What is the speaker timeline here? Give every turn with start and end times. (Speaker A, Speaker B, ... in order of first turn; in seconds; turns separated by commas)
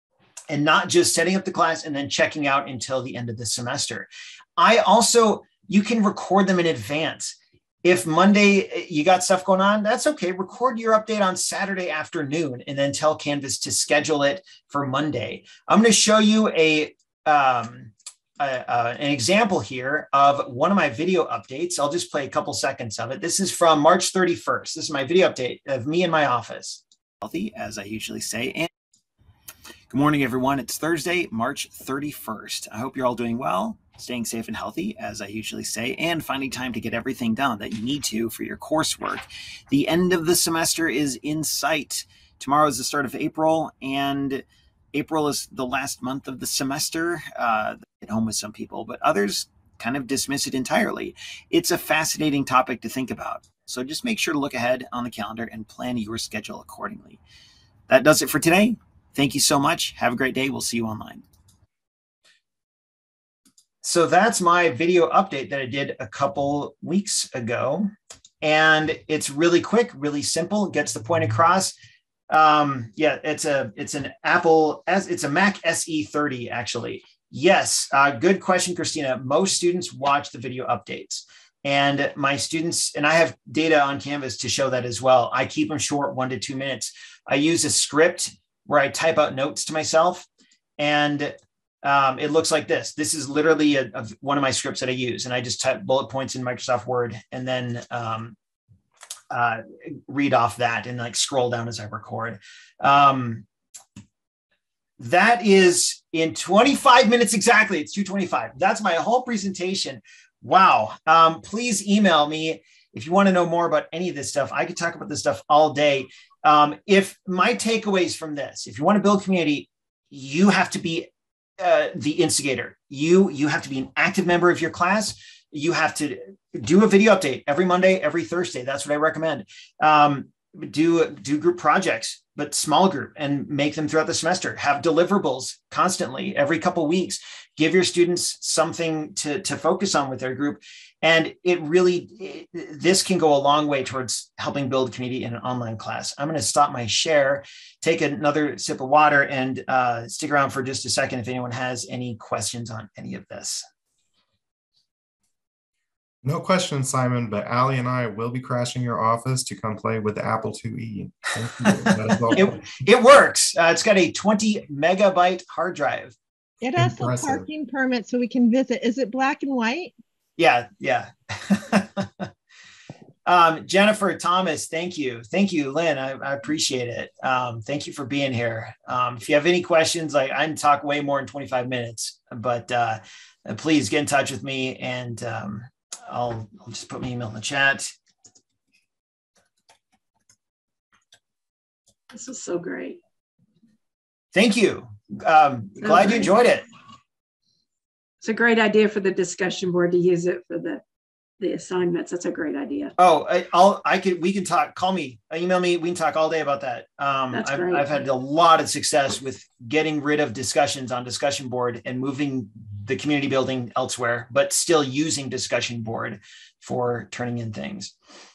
Speaker A: 0.5-28.7, Speaker A: 29.9-57.2, Speaker A: 57.9-61.2, Speaker A: 63.8-67.9, Speaker A: 68.4-71.8, Speaker A: 72.3-90.3, Speaker A: 90.8-98.3, Speaker A: 99.3-103.4, Speaker A: 105.0-153.6, Speaker B: 156.2-162.6, Speaker A: 162.3-166.2, Speaker C: 166.6-169.9, Speaker B: 166.8-167.5, Speaker A: 170.4-172.3, Speaker A: 173.2-187.9, Speaker D: 192.1-193.0, Speaker A: 194.3-196.7, Speaker D: 195.8-196.3, Speaker D: 198.2-200.8, Speaker D: 201.4-202.9, Speaker A: 203.0-217.9, Speaker D: 207.3-207.9